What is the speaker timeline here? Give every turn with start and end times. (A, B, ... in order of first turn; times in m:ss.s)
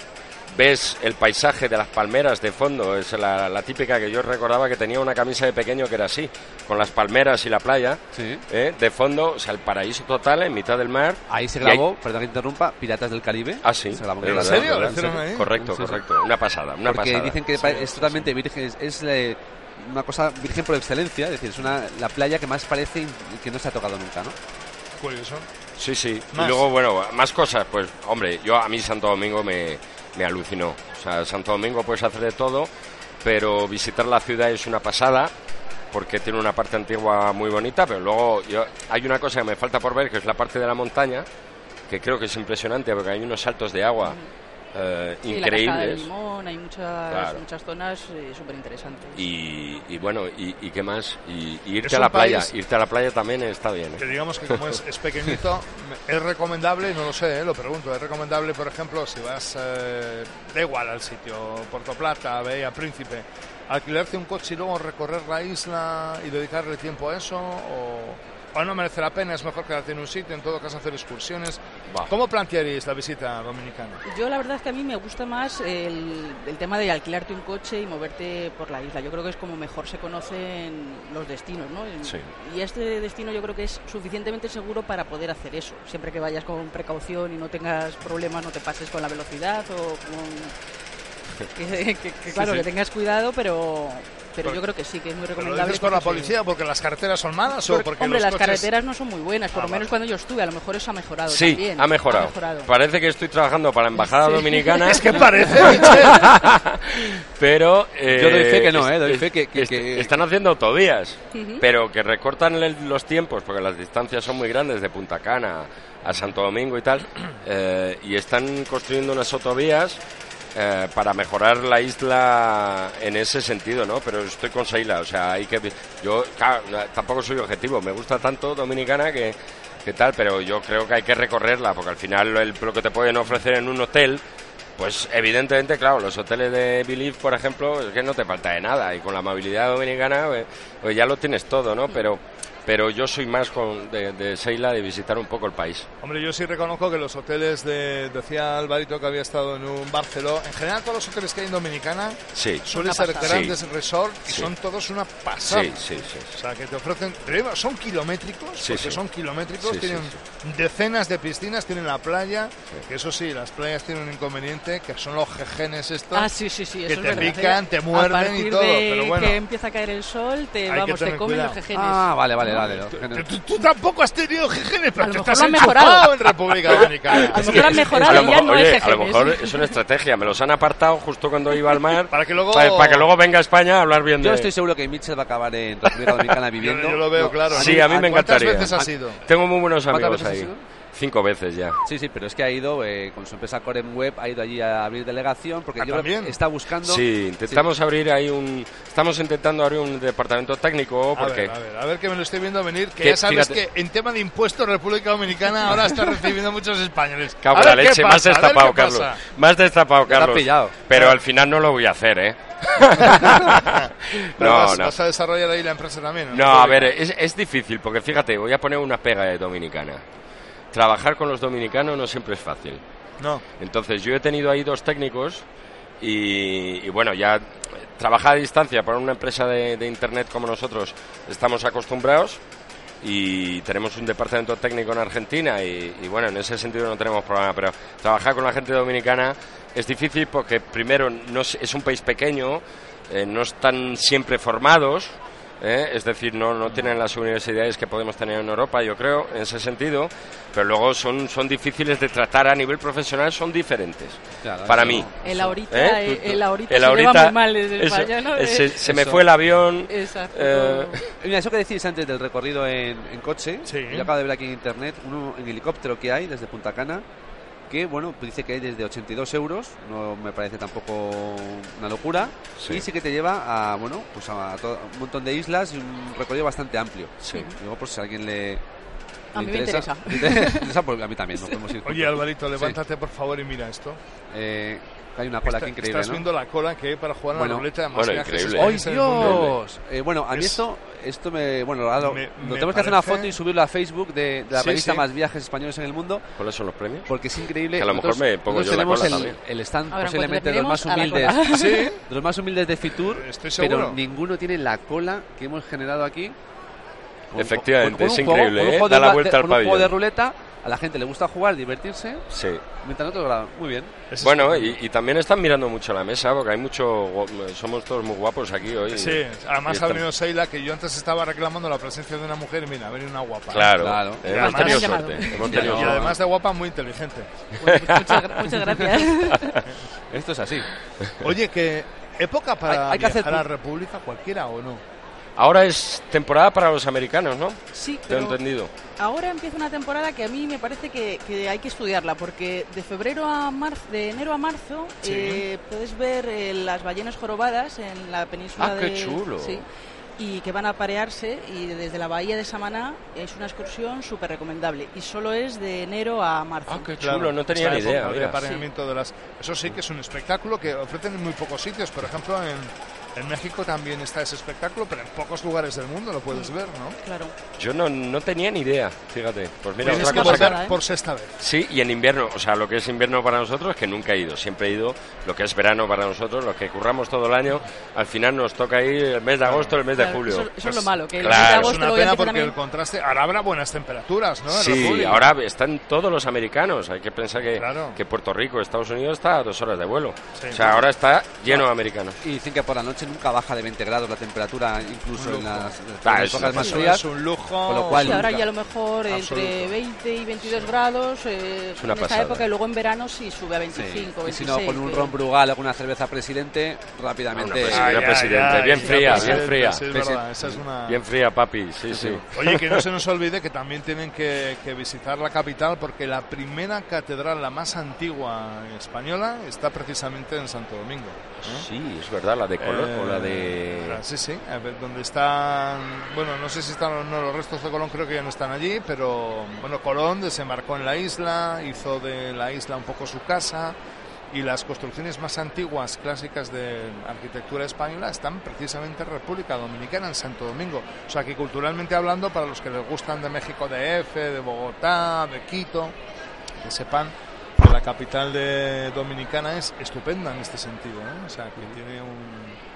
0:00.5-0:11.8 A
0:08.1-0:08.4 B
0:11.3-0:16.0 B
0:13.6-0:17.5 A
0:14.2-0:15.5 C
0:16.8-0:24.4 B
0:17.6-0:18.3 C
0:25.0-0:25.5 C
0:25.8-0:32.7 A
0:26.3-0:26.6 C
0:33.2-0:35.3 A
0:35.9-0:41.3 A
0:41.9-0:44.2 A
0:44.0-0:44.3 D
0:44.7-0:46.1 A
0:45.3-0:49.2 D
0:47.1-0:47.4 A
0:49.2-0:54.7 A
0:51.8-0:52.5 C
0:54.0-1:14.0 C
1:14.0-1:30.6 D
1:31.5-1:36.4 D
1:35.4-1:38.7 C
1:37.5-1:42.7 D
1:39.5-1:39.9 C
1:41.3-2:00.0 A
1:44.0-1:44.8 D
1:44.9-1:46.3 C
1:48.1-1:50.1 B
1:51.3-1:51.6 D
2:00.6-2:14.2 A
2:14.8-2:25.9 A
2:26.0-2:35.8 C
2:32.3-2:32.7 A
2:32.7-2:33.6 D
2:33.2-2:33.6 A
2:35.4-2:36.4 A
2:36.4-2:46.3 C
2:38.6-2:39.0 A
2:39.6-2:40.2 A
2:46.1-2:52.1 D
2:46.9-2:49.4 C
2:50.7-2:51.6 C
2:51.7-2:53.3 B
2:52.5-2:57.9 C
2:55.0-2:59.7 D
2:57.9-3:04.5 A
2:58.0-2:58.4 B
3:02.1-3:03.1 C
3:04.2-3:08.9 B
3:06.6-3:09.2 C
3:07.5-3:11.8 A
3:09.9-3:10.6 B
3:11.8-3:17.7 B
3:15.8-3:16.4 C
3:16.8-3:21.6 A
3:21.2-3:29.2 C
3:23.0-3:23.6 A
3:27.4-3:35.0 A
3:30.1-3:30.8 B
3:30.9-3:31.2 C
3:33.3-3:36.9 C
3:36.3-3:40.0 A
3:40.7-3:42.8 A
3:43.2-3:43.4 C
3:43.6-3:45.4 A
3:46.0-3:52.4 A
3:53.0-4:15.1 A
4:14.4-4:15.6 B
4:15.2-4:18.8 D
4:15.7-4:21.1 A
4:18.8-4:19.2 B
4:19.9-4:21.0 D
4:21.2-4:27.0 B
4:23.7-4:24.1 C
4:27.7-4:38.6 B
4:32.6-4:32.9 A
4:37.2-4:37.5 A
4:39.3-4:40.8 D
4:39.4-4:42.8 B
4:41.8-4:44.0 C
4:44.3-4:46.3 B
4:45.4-4:49.5 C
4:47.3-4:47.7 B
4:47.9-4:49.6 A
4:48.5-4:56.2 B
4:50.3-4:50.6 C
4:52.0-4:53.4 C
4:54.5-4:55.1 C
4:56.4-4:57.1 A
4:57.1-5:01.5 B
4:57.7-4:59.4 A
4:59.9-5:02.0 D
5:01.5-5:02.0 C
5:02.1-5:06.4 B
5:03.0-5:04.0 C
5:07.3-5:12.2 B
5:07.4-5:10.0 A
5:12.3-5:12.6 A
5:12.8-5:13.9 B
5:14.1-5:14.8 C
5:14.2-5:20.0 A
5:18.9-5:23.8 C
5:23.5-5:26.0 A
5:23.5-5:26.2 B
5:24.2-5:25.8 D
5:24.4-5:27.3 C
5:27.6-5:29.6 D
5:27.8-5:28.4 A
5:30.1-5:30.7 B
5:31.0-5:31.3 A
5:31.2-5:34.8 C
5:32.7-5:33.4 B
5:35.4-5:38.7 A
5:37.7-5:38.4 D
5:39.0-5:49.7 D
5:45.0-5:45.4 C
5:48.6-5:49.6 A
5:50.2-5:56.9 D
5:56.7-5:58.4 A
5:57.0-6:07.0 C
5:58.4-5:58.7 D
6:07.0-6:07.3 D
6:07.6-6:10.6 A
6:09.8-6:10.8 D
6:09.8-6:11.4 C
6:11.4-6:20.5 A
6:19.4-6:19.8 C
6:19.9-6:22.6 D
6:20.6-6:25.3 C
6:21.2-6:21.8 A
6:24.5-6:32.2 A
6:27.5-6:28.0 C
6:30.4-6:30.7 C
6:32.2-6:37.1 B
6:35.1-6:35.7 C
6:36.0-6:36.9 A
6:36.6-6:38.5 C
6:37.6-6:38.3 B
6:37.9-6:45.2 D
6:39.1-6:39.8 C
6:41.8-6:42.5 A
6:43.7-6:48.0 B
6:47.3-6:49.8 A
6:47.7-6:51.0 C
6:48.9-6:50.6 B
6:50.9-6:52.8 A
6:51.9-6:52.2 B
6:52.4-7:01.7 C
7:01.4-7:04.0 A
7:02.6-7:13.8 C
7:14.3-7:26.0 C
7:26.6-7:32.6 C